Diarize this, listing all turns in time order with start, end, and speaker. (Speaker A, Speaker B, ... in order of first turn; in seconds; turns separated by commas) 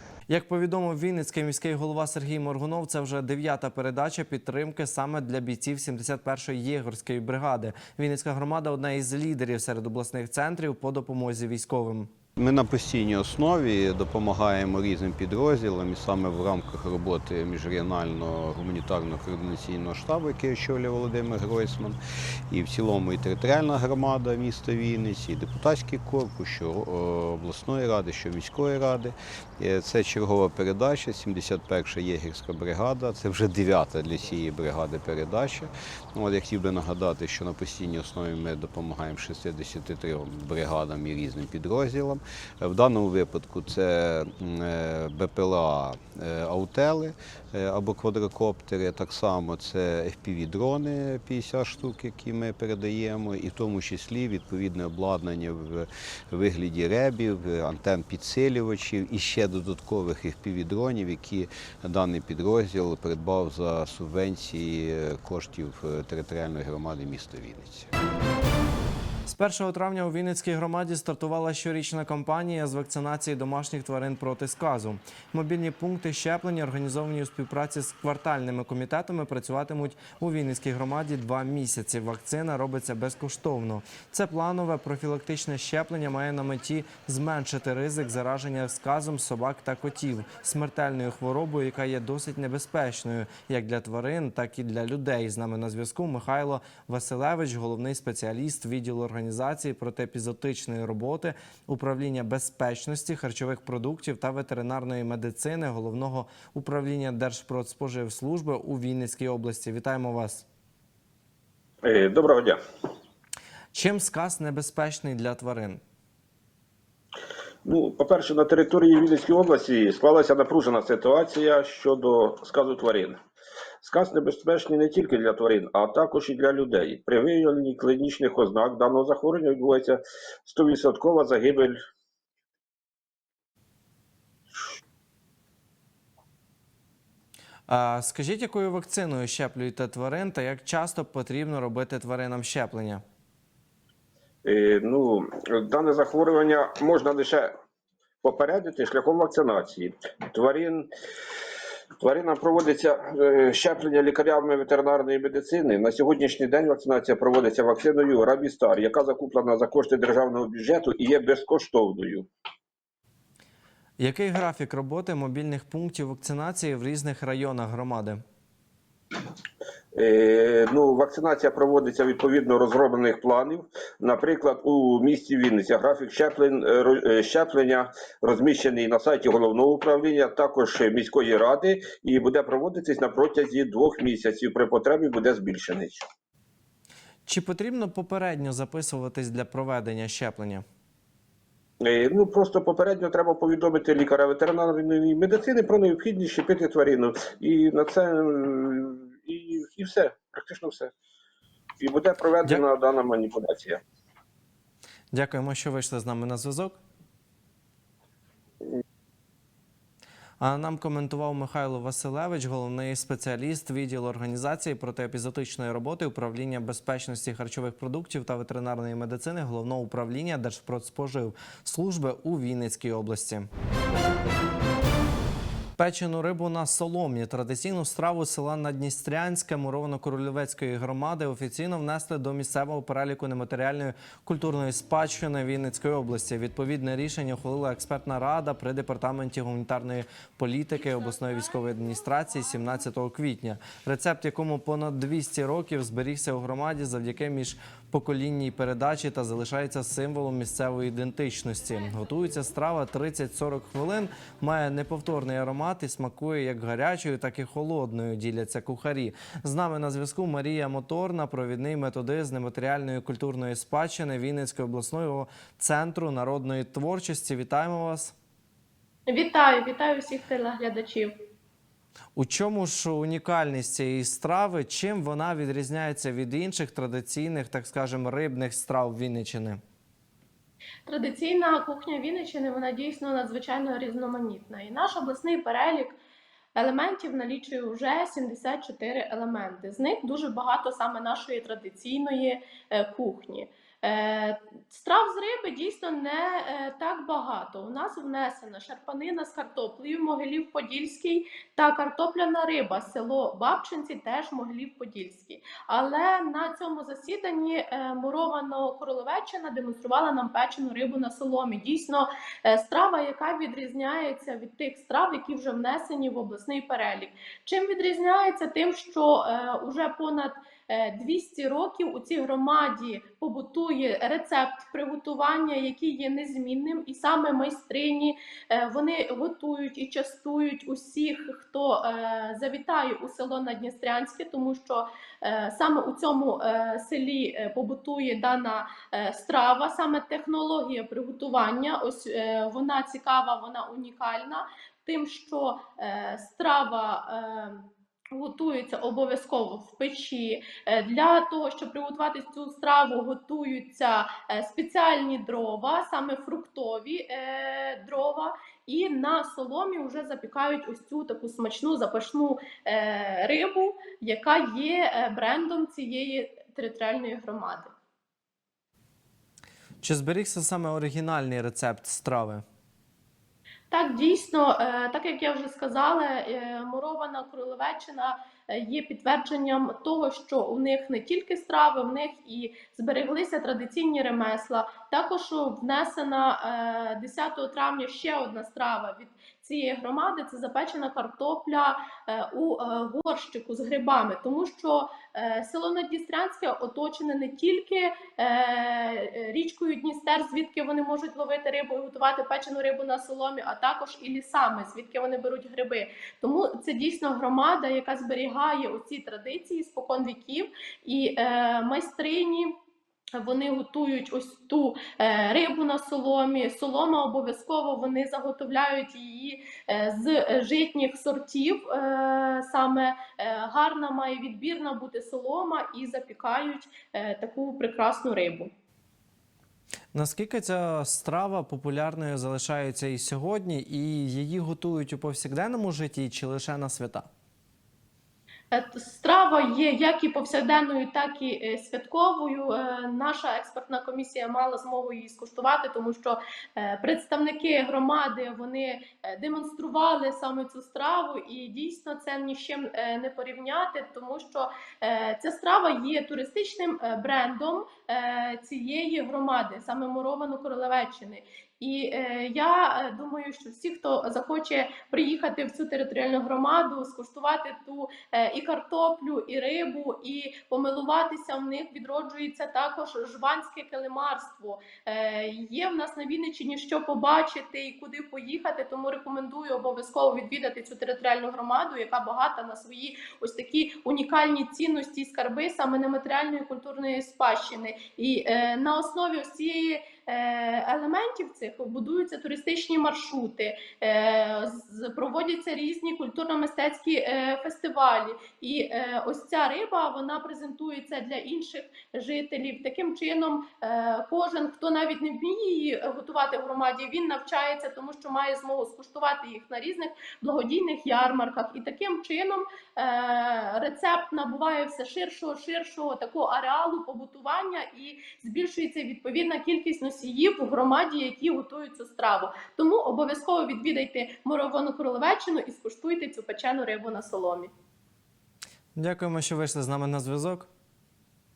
Speaker A: 0.3-12.1, Speaker B: 12.5-21.8, Speaker B: 22.5-28.6, Speaker B: 29.6-35.5, Speaker B: 36.2-55.8, Speaker B: 56.3-67.8, Speaker A: 69.3-110.4, Speaker C: 111.8-112.6, Speaker A: 113.7-115.8, Speaker C: 117.6-123.2, Speaker C: 123.8-131.8, Speaker A: 137.7-143.0, Speaker C: 144.4-147.5, Speaker C: 148.2-150.9, Speaker C: 152.0-162.3, Speaker A: 164.0-168.2, Speaker C: 169.9-186.0, Speaker A: 187.3-190.6, Speaker C: 191.8-200.9, Speaker C: 201.8-203.8, Speaker A: 205.1-206.8, Speaker A: 210.4-223.5, Speaker A: 225.8-268.1, Speaker D: 269.1-271.1, Speaker A: 272.1-279.6, Speaker D: 280.9-285.9, Speaker D: 286.6-347.6, Speaker D: 348.1-367.7, Speaker A: 369.8-372.4, Speaker D: 373.7-412.5, Speaker D: 413.2-428.5, Speaker A: 429.9-437.1, Speaker D: 438.5-527.5, Speaker A: 528.8-530.5